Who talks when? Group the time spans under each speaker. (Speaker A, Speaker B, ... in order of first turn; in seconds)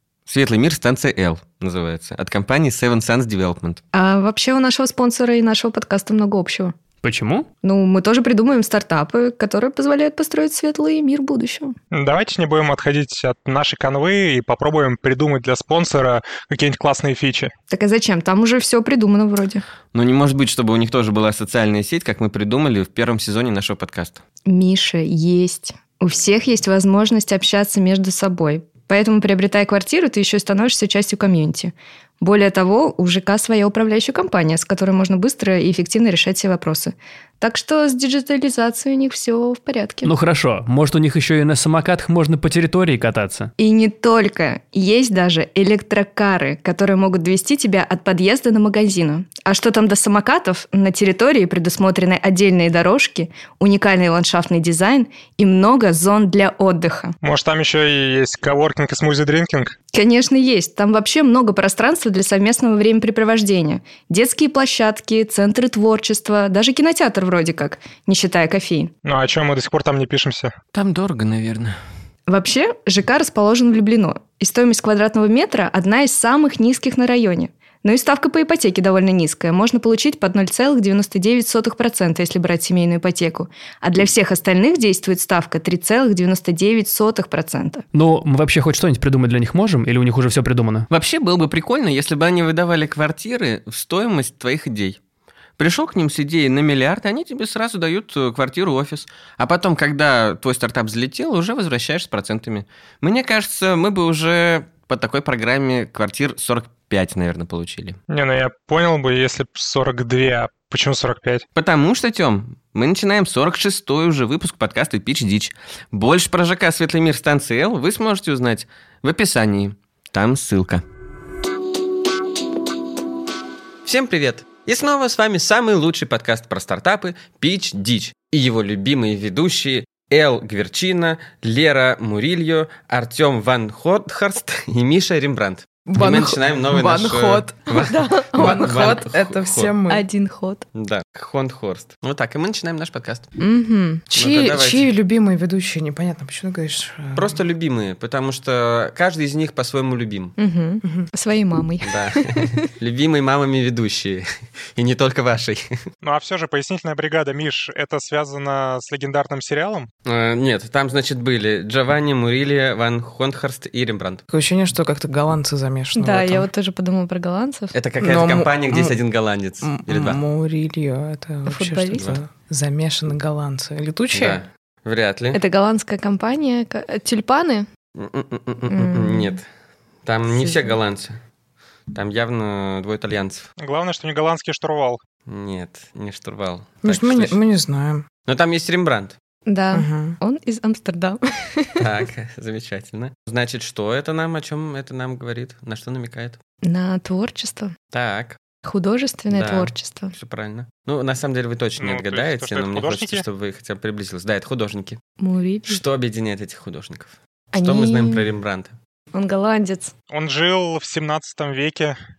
Speaker A: 0.3-3.8, 19.9-24.2, 70.7-71.8, 90.9-95.0, 95.6-108.0, 111.5-120.8, 123.8-139.7, 140.7-143.3, 144.1-144.9, 147.1-150.3, 151.8-155.7, 160.0-164.2, 167.7-170.2, 174.1-175.4, 177.9-179.4, 180.0-181.2, 181.9-183.5, 185.2-187.3, 188.2-189.2, 191.8-196.4, 197.9-198.4, 199.3-205.0, 205.7-208.8
Speaker B: 3.9-6.8, 7.6-11.7, 17.7-19.6, 24.4-40.1, 43.6-57.1, 59.9-68.9, 72.3-87.8, 137.7-139.0, 139.9-140.6, 143.4-144.0, 150.4-152.6, 165.9-167.7, 171.4-172.1, 175.3-177.7, 178.7-179.3, 180.3-180.7, 189.4-191.8, 196.6-197.7, 198.6-200.1, 205.2-205.8, 207.5-208.3, 209.1-209.9
Speaker C: 7.0-7.5, 40.0-43.5, 87.9-90.9
Speaker D: 11.9-17.5, 57.2-59.7, 69.0-70.5, 108.1-111.4, 156.0-159.9, 183.6-185.0, 201.8-203.2, 210.1-212.0
Speaker E: 135.9-137.6, 138.3-140.0, 144.1-147.4, 164.3-166.5, 168.0-168.9, 169.6-174.4, 186.8-188.1, 189.7-190.2